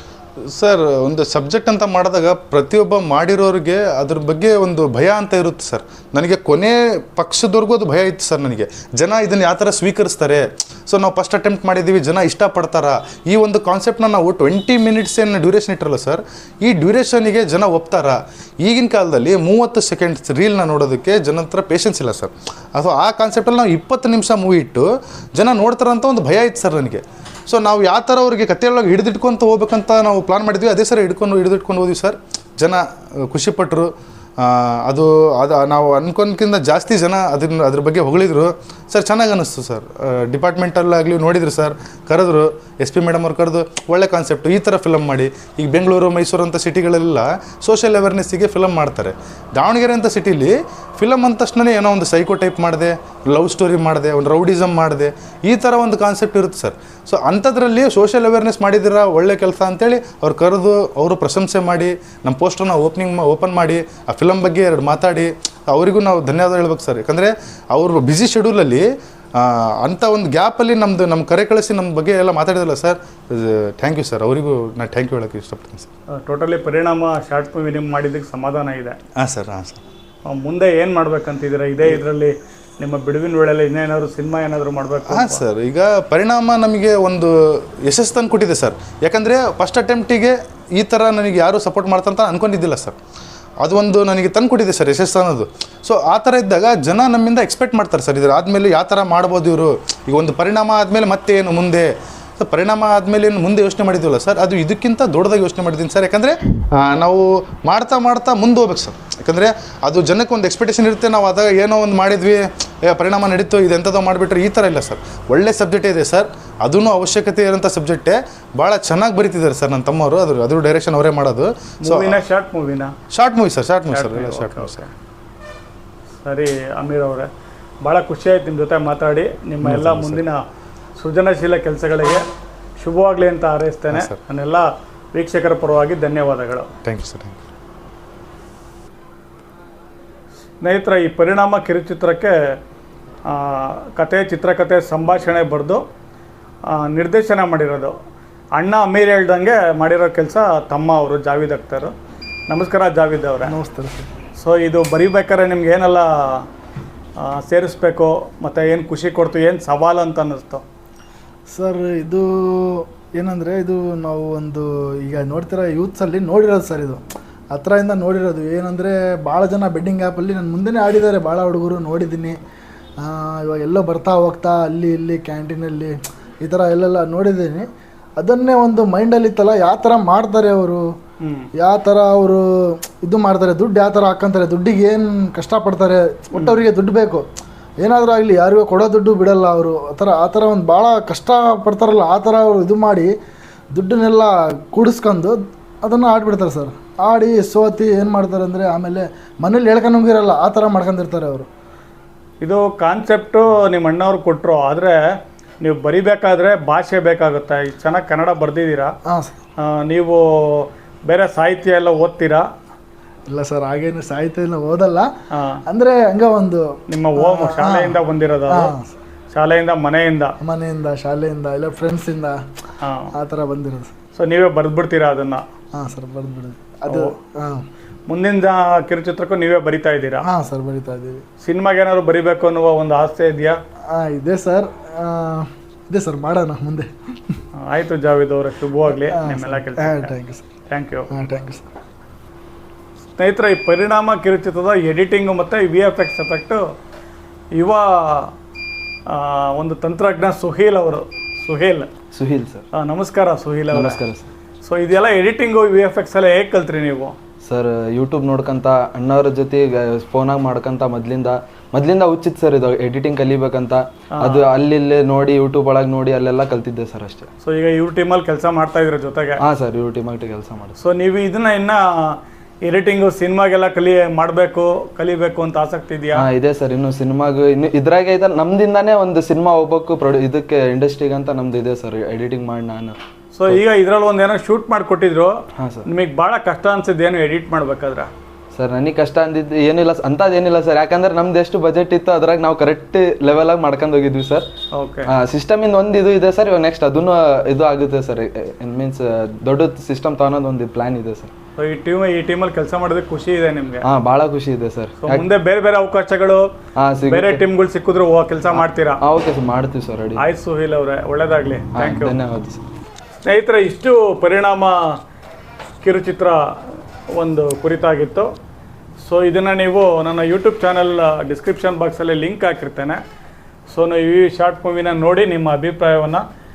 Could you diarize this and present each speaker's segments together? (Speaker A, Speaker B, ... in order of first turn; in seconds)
Speaker A: 0.5-75.9, 79.2-79.8, 85.0-93.0, 93.6-122.2, 123.1-124.8, 129.6-130.2, 133.9-134.2, 136.8-137.4
Speaker B: 76.2-79.0, 80.3-85.4, 121.8-122.9, 123.9-124.9, 126.2-127.3, 127.8-130.4, 131.0-132.2, 132.8-136.7, 140.6-142.6, 143.3-145.8, 146.7-147.9, 148.6-151.9, 152.5-153.5, 154.4-156.5, 157.2-160.6, 181.2-181.5, 186.3-186.6, 202.4-204.9, 205.6-208.9, 209.6-212.4, 215.3-215.6, 216.9-218.7, 219.3-220.3, 222.8-223.1, 224.2-225.4, 228.1-230.2, 231.4-233.6, 237.6-240.1, 240.7-241.1, 243.2-246.6, 247.5-248.3, 249.1-251.9, 252.7-254.0, 254.6-257.2, 264.1-264.5, 267.4-269.4, 270.8-276.2, 283.3-285.3, 285.9-288.1, 294.7-295.1, 301.6-303.8, 305.0-306.5, 307.1-309.0, 310.2-312.2, 313.2-315.0, 315.8-318.3, 319.0-323.0, 323.7-326.2
Speaker C: 153.4-154.1, 161.5-167.0, 167.5-172.3, 173.0-177.7, 178.2-180.8, 181.6-187.2, 187.8-193.1, 193.7-201.5, 209.1-209.3, 213.3-215.1, 215.7-218.9, 220.4-222.4, 223.1-223.9, 225.7-227.7, 230.2-231.2, 233.9-237.4, 239.0-240.4, 241.1-241.7
Speaker D: 252.1-252.6, 253.7-254.2, 257.4-267.3, 269.4-270.7, 276.1-283.6, 285.6-285.8, 288.5-294.5, 295.1-301.3, 303.8-305.2, 306.8-307.4, 308.5-310.2, 311.7-312.6